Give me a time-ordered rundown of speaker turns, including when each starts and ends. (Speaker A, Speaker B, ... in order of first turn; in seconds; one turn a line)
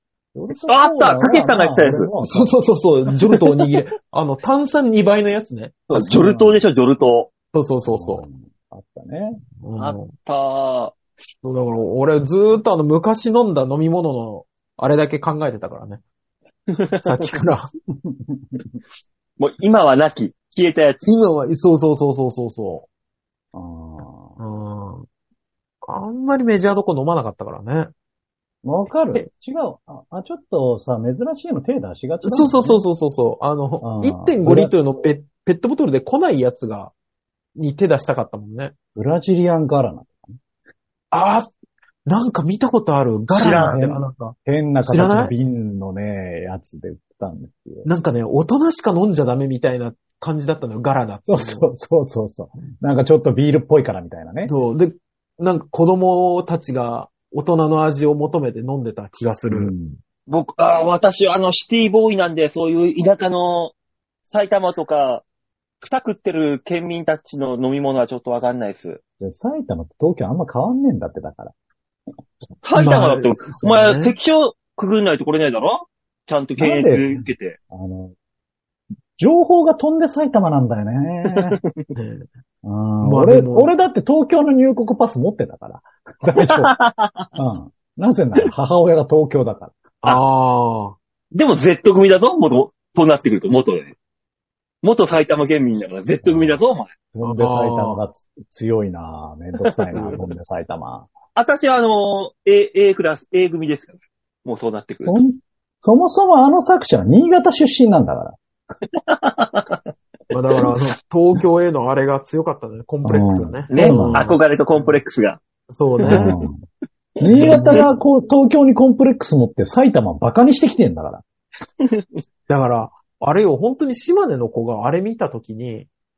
Speaker A: 0.3-2.5
Speaker B: 0.7-2.1
Speaker C: 2.2-6.2
Speaker B: 5.9-7.3
Speaker A: 6.0-6.6
Speaker C: 7.5-8.2
Speaker A: 7.9-9.4
Speaker C: 9.6-10.1
Speaker B: 9.8-11.0
Speaker C: 11.4-16.0
Speaker B: 16.7-17.4
Speaker C: 17.0-17.7
Speaker A: 18.0-18.8
Speaker B: 19.4-21.0
Speaker C: 21.1-22.9
Speaker A: 23.5-24.4
Speaker C: 24.4-25.1
Speaker C: 25.9-27.9
Speaker A: 28.6-32.8
Speaker C: 32.2-36.9
Speaker A: 33.8-34.7
Speaker C: 37.6-38.7
Speaker A: 39.0-40.4
Speaker C: 41.1-41.5
Speaker C: 42.1-45.3
Speaker A: 43.4-47.9
Speaker B: 43.4-43.8
Speaker C: 47.9-51.7
Speaker A: 51.3-54.6
Speaker C: 54.5-59.7
Speaker A: 59.5-60.0
Speaker B: 60.3-63.7
Speaker B: 64.3-65.2
Speaker B: 65.8-69.0
Speaker A: 69.2-71.5
Speaker B: 72.6-77.6
Speaker C: 72.8-74.2
Speaker A: 76.6-77.2
Speaker A: 77.7-78.2
Speaker A: 79.2-81.6
Speaker B: 81.3-81.9
Speaker C: 82.0-82.3
Speaker A: 82.6-86.7
Speaker C: 83.0-83.7
Speaker B: 86.3-87.3
Speaker A: 87.4-89.8
Speaker C: 90.0-91.0
Speaker B: 91.3-94.0
Speaker B: 94.8-96.9
Speaker A: 96.2-96.6
Speaker A: 97.1-101.1
Speaker C: 97.2-98.0
Speaker B: 99.6-100.2
Speaker C: 99.9-100.3
Speaker B: 101.4-105.2
Speaker A: 105.1-108.4
Speaker B: 108.9-109.9
Speaker C: 110.3-114.4
Speaker A: 113.0-114.3
Speaker B: 113.7-115.4
Speaker C: 115.7-116.3
Speaker B: 116.0-116.3
Speaker A: 116.0-116.6
Speaker A: 117.2-121.2
Speaker C: 117.3-117.9
Speaker B: 117.4-117.8
Speaker B: 121.8-122.2
Speaker C: 122.5-125.9